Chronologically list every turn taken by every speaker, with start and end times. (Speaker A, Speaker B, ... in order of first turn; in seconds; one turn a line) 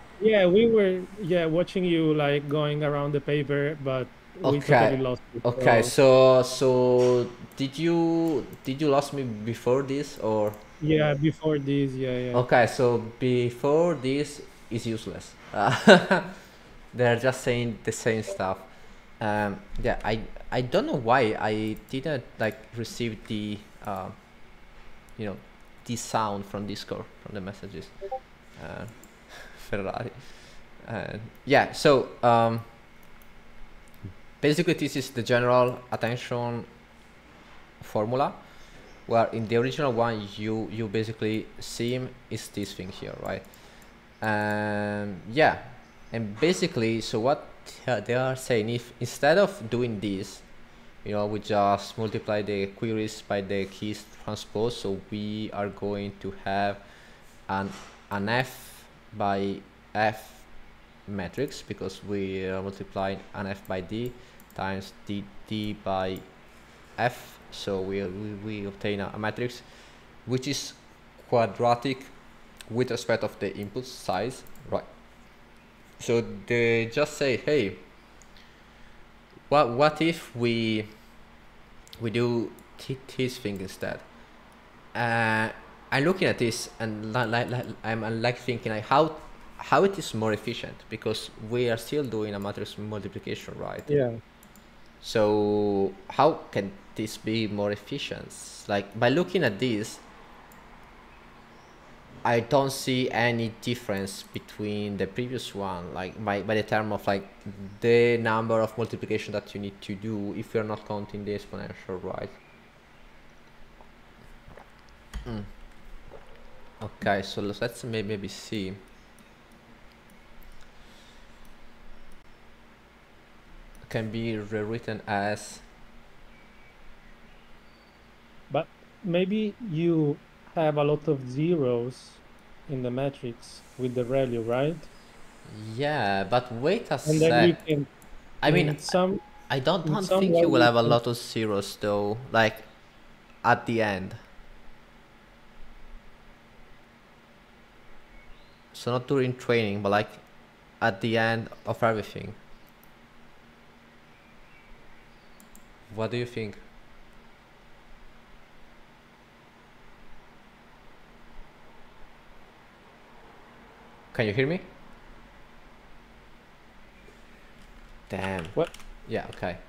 Speaker A: 0.2-5.9
Speaker B: 4.4-10.6
Speaker A: 10.8-12.4
Speaker B: 12.3-16.4
Speaker B: 16.9-18.7
Speaker B: 19.2-24.2
Speaker B: 25.2-28.0
Speaker B: 28.6-32.7
Speaker B: 34.4-36.7
Speaker B: 37.8-38.4
Speaker B: 39.1-43.5
Speaker B: 44.2-50.5
Speaker B: 51.0-56.8
Speaker B: 57.5-60.5
Speaker B: 61.1-66.3
Speaker B: 67.0-69.7
Speaker B: 70.2-72.1
Speaker B: 72.7-74.9
Speaker B: 76.0-77.8
Speaker B: 79.5-80.9
Speaker B: 82.0-84.0
Speaker B: 84.9-93.9
Speaker A: 93.9-94.2
Speaker B: 95.0-100.0
Speaker B: 102.2-112.4
Speaker B: 115.2-115.5
Speaker B: 116.8-118.8
Speaker B: 123.9-125.7
Speaker A: 128.5-134.9
Speaker B: 135.5-137.6
Speaker A: 137.1-137.9
Speaker B: 138.4-138.9
Speaker A: 138.5-139.2
Speaker B: 139.5-142.7
Speaker A: 139.8-141.0
Speaker B: 143.4-144.2
Speaker B: 148.7-150.2
Speaker B: 150.8-152.4
Speaker B: 155.9-156.6
Speaker B: 164.1-164.7
Speaker B: 168.1-169.6